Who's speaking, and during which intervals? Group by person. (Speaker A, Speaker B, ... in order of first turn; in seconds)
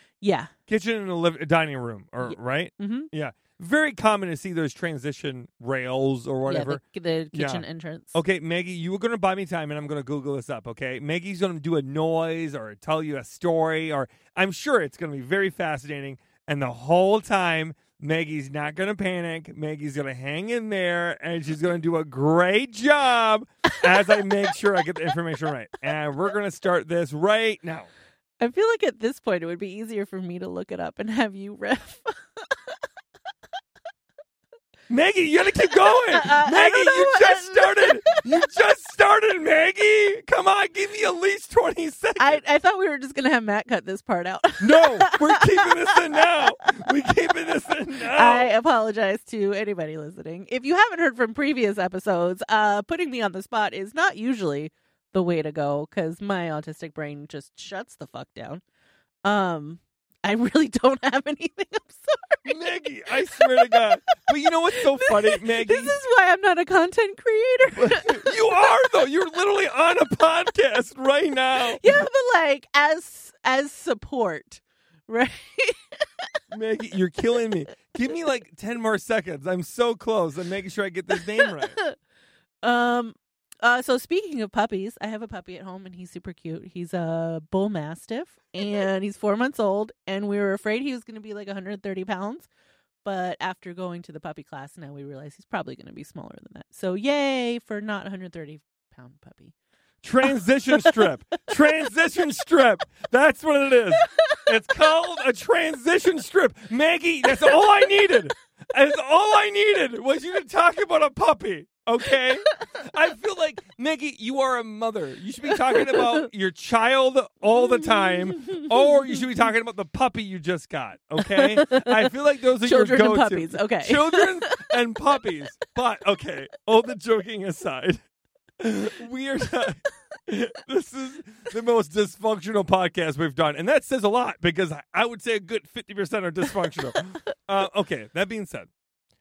Speaker A: 0.2-0.5, 2.2-3.1, 6.5-8.2, 23.9-24.2, 28.4-32.9, 35.6-38.2, 42.2-46.9, 48.0-58.6, 59.2-62.5, 63.4-64.3, 65.1-68.3, 71.8-76.3, 82.6-92.5, 93.0-99.5, 100.2-101.0, 115.7-116.2, 117.6-119.2, 121.2-122.1, 122.6-124.5
Speaker B: 0.7-6.8, 7.3-27.9, 34.9-42.4, 44.6-48.5, 62.5-66.0, 67.8-72.0, 76.5-81.8, 100.0-128.0, 128.6-138.7